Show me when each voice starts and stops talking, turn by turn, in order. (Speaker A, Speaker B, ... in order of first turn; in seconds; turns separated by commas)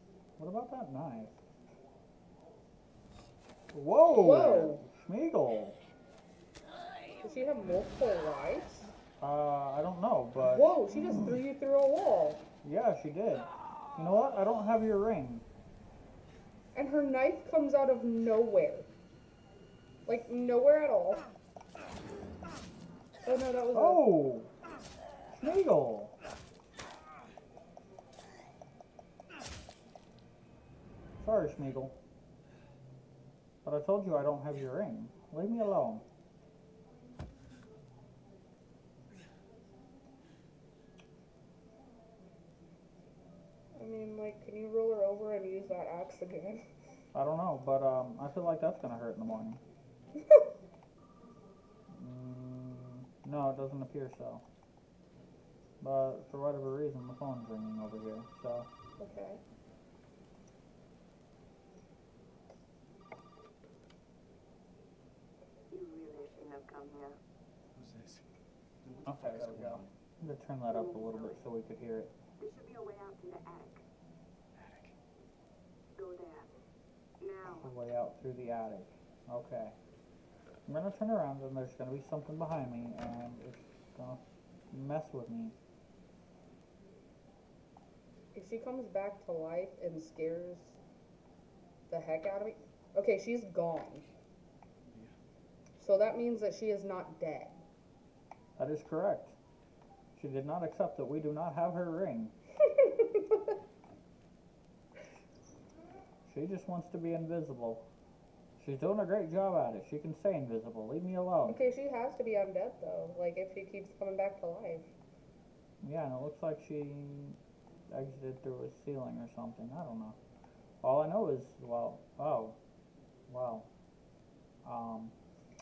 Speaker A: 0.4-1.4, Speaker A: 3.7-5.8, Speaker B: 4.1-4.8, Speaker B: 7.2-8.9, Speaker A: 9.2-11.2, Speaker B: 10.4-12.4, Speaker A: 12.6-15.4, Speaker B: 16.7-18.9, Speaker B: 20.1-21.2, Speaker B: 23.2-24.1, Speaker A: 23.7-24.5, Speaker A: 25.3-26.1, Speaker A: 31.2-31.9, Speaker A: 33.6-36.0, Speaker B: 43.7-46.6, Speaker A: 47.1-49.6, Speaker A: 51.9-54.4, Speaker A: 55.8-58.7, Speaker B: 59.0-59.4, Speaker C: 65.7-67.2, Speaker D: 67.7-68.3, Speaker D: 68.8-69.9, Speaker A: 69.0-72.1, Speaker C: 70.7-71.4, Speaker C: 72.4-73.8, Speaker D: 74.5-74.9, Speaker C: 76.0-76.5, Speaker C: 77.2-77.7, Speaker A: 77.5-79.8, Speaker A: 80.7-85.5, Speaker B: 88.3-90.8, Speaker B: 91.9-94.1, Speaker D: 94.9-95.1, Speaker B: 95.8-97.6, Speaker A: 98.6-99.4, Speaker A: 100.2-102.3, Speaker B: 102.8-103.4, Speaker A: 106.2-107.8, Speaker A: 108.6-111.6, Speaker B: 111.5-114.9, Speaker A: 115.8-120.2, Speaker A: 120.8-122.6, Speaker A: 123.3-123.7, Speaker A: 124.6-125.1